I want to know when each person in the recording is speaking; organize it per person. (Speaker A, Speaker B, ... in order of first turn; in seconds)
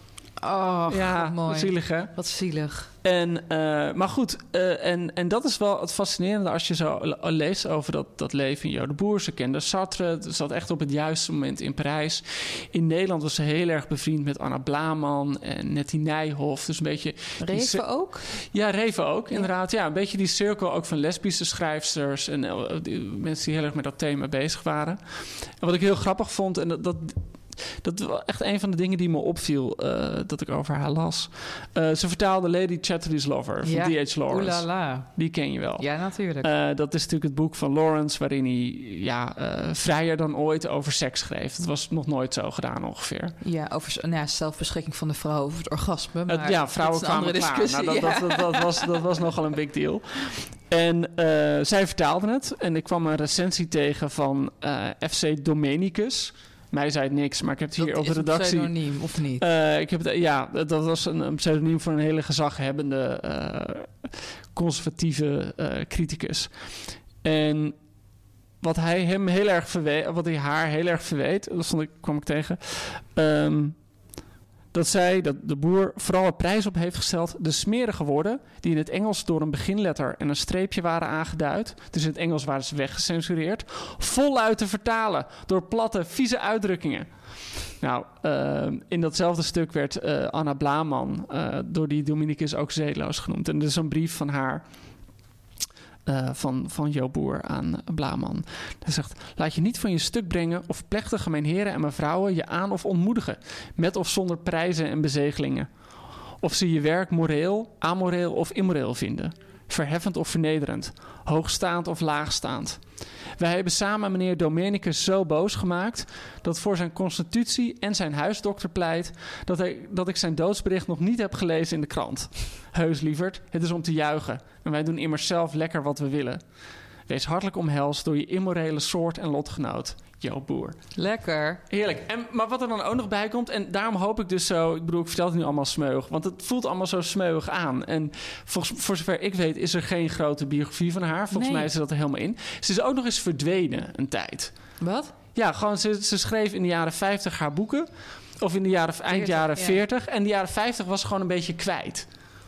Speaker A: 0.4-2.9, 17.4-18.2, 33.6-35.2, 35.8-36.5, 43.4-48.9, 57.7-59.4, 131.0-131.6, 141.3-141.7, 144.8-145.1, 149.1-149.8
Speaker B: 0.9-2.1, 3.0-43.4, 46.3-67.8, 68.6-73.8, 74.7-94.6, 96.0-105.7, 106.4-112.8, 113.4-126.4, 127.1-130.9, 131.7-144.5, 145.3-147.9, 148.4-152.1